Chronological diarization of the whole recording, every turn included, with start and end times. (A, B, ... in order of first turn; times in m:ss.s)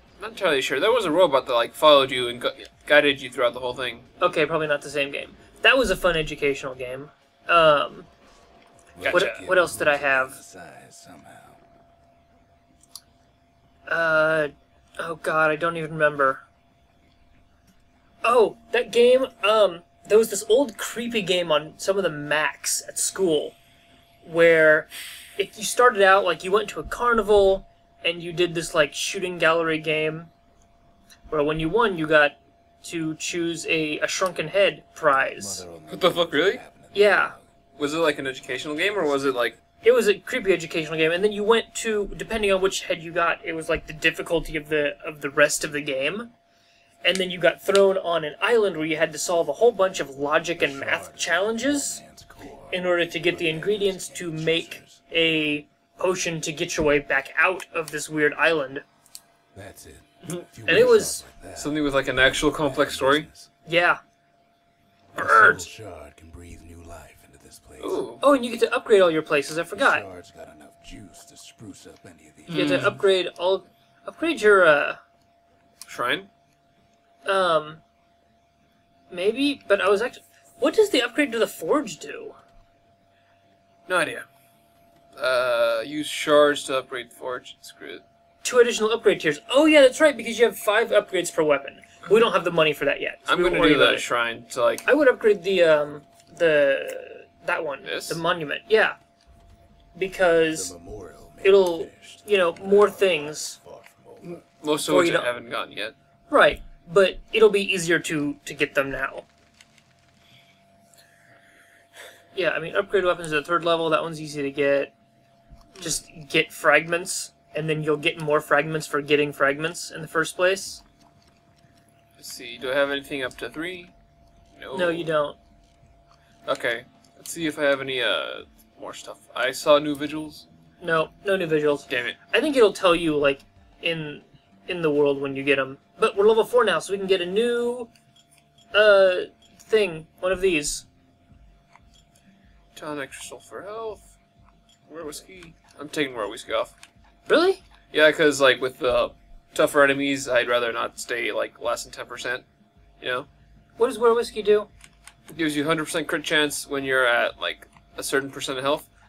0:00.2-0:04.1 A
0:04.2-0:08.1 B
0:08.9-0:11.6 C
0:09.0-0:09.4 A
0:09.1-0:10.4 B
0:13.9-0:16.4 B
0:18.2-0:23.6 B
0:24.2-0:30.3 B
0:31.3-0:35.6 B
0:35.2-0:37.5 C
0:35.9-0:36.6 A
0:36.9-0:37.3 B
0:37.8-0:39.6 A
0:39.8-0:46.3 B
0:47.0-0:52.0 B
0:50.6-0:55.0 C
0:52.7-0:58.8 B
0:59.5-1:03.5 C
1:00.7-1:01.2 B
1:01.6-1:03.3 A
1:03.7-1:04.0 B
1:05.1-1:08.0 C
1:05.2-1:05.7 B
1:07.8-1:08.2 A
1:08.2-1:10.1 B
1:09.7-1:13.0 C
1:12.5-1:13.0 A
1:12.5-1:15.0 B
1:15.9-1:16.3 A
1:17.2-1:17.8 B
1:19.1-1:22.4 B
1:23.9-1:24.2 A
1:25.2-1:28.0 A
1:28.4-1:34.1 B
1:33.3-1:34.8 A
1:34.8-1:39.0 B
1:37.8-1:38.2 A
1:40.0-1:40.7 B
1:40.5-1:44.4 C
1:41.4-1:43.6 B
1:44.2-1:46.0 A
1:44.8-1:45.3 B
1:46.3-1:49.3 B
1:52.3-1:54.9 B
1:55.8-2:00.8 B
2:02.2-2:03.9 A
2:04.6-2:05.1 A
2:04.7-2:05.4 B
2:06.5-2:10.4 A
2:10.8-2:17.9 B
2:11.9-2:12.2 A
2:18.7-2:20.8 B
2:22.8-2:24.1 A
2:24.9-2:26.7 A
2:27.3-2:27.6 B
2:27.9-2:32.4 A
2:33.0-2:33.3 A
2:33.8-2:34.7 B
2:35.3-2:38.8 A